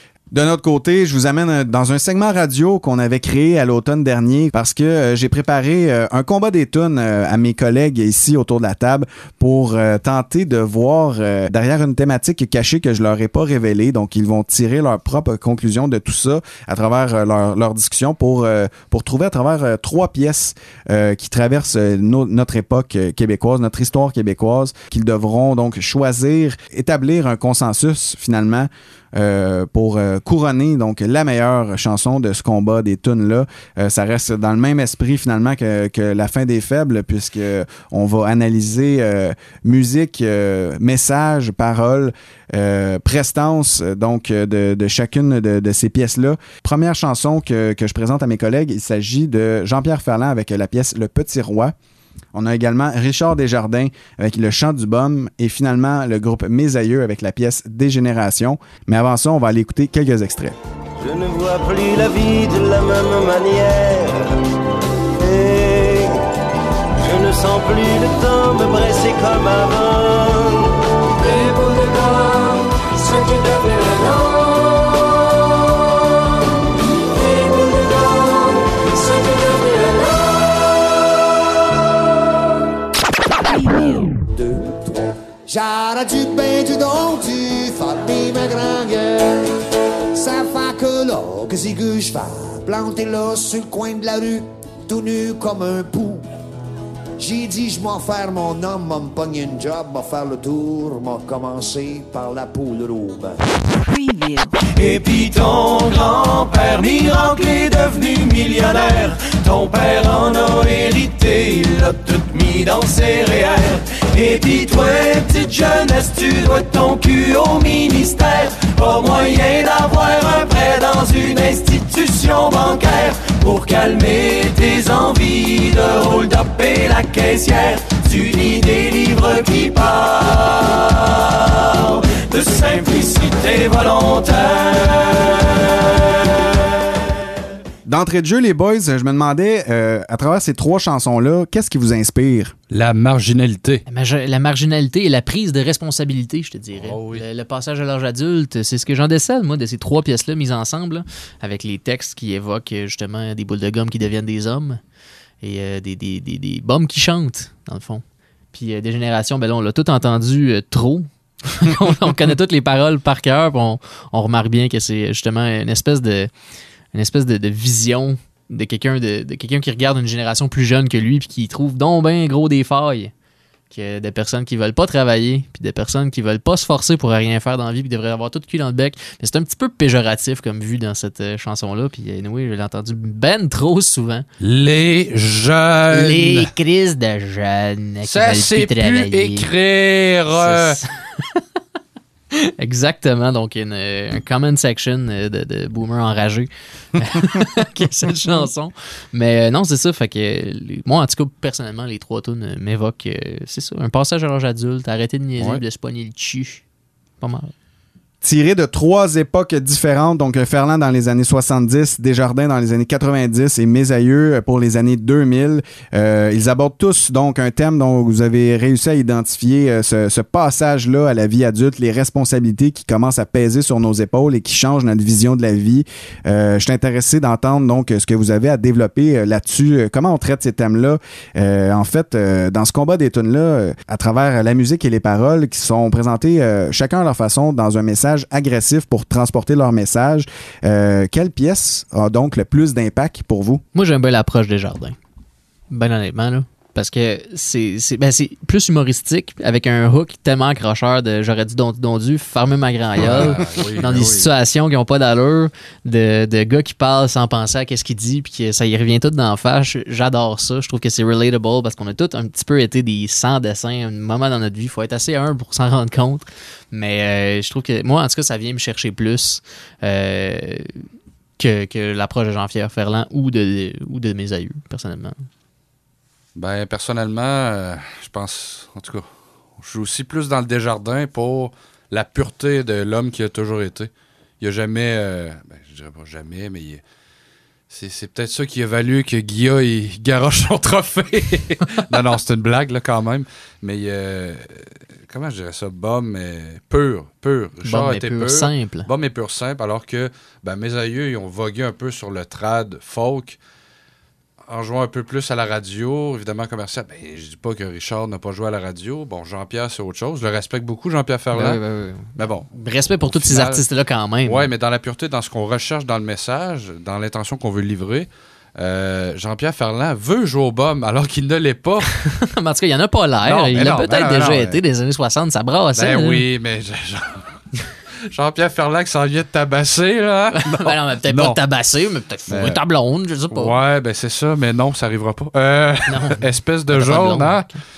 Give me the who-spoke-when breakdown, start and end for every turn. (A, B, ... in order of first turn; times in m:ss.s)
0:00.3-0:51.7 A
0:52.3-1:00.6 A
1:01.0-1:04.3 B
1:05.2-1:06.2 B
1:07.0-1:14.7 B
1:17.1-1:18.2 B
1:19.0-1:20.0 B
1:23.7-1:29.5 C
1:30.1-1:36.3 C
1:37.2-1:43.4 C
1:44.8-1:47.2 D
1:57.2-1:57.6 B
1:59.0-1:59.5 B
2:17.9-2:22.6 A
2:22.7-2:23.8 E
2:23.9-2:34.8 F
2:26.7-2:27.2 E
2:35.4-2:46.3 F
2:46.9-2:53.1 F
2:53.7-3:04.3 F
3:04.4-3:06.5 E
3:05.9-3:09.5 F
3:08.1-3:10.8 E
3:10.3-3:11.4 F
3:12.3-3:26.6 F
3:27.2-3:27.5 F
3:28.2-4:03.6 A
4:03.7-4:05.0 F
4:05.7-4:30.8 F
4:13.0-4:14.3 E
4:31.4-4:35.2 F
4:36.4-4:39.1 E
4:39.6-4:46.8 E
4:47.7-5:03.4 E
4:57.6-4:58.9 F
5:04.5-5:11.6 E
5:11.3-5:14.5 F
5:12.2-5:13.6 E
5:14.2-5:21.9 E
5:22.2-5:26.2 F
5:23.2-5:24.6 E
5:25.8-5:27.4 E
5:28.1-5:31.4 E
5:30.4-5:33.6 F
5:32.3-5:32.6 E
5:33.3-5:37.5 E
5:35.9-5:37.6 F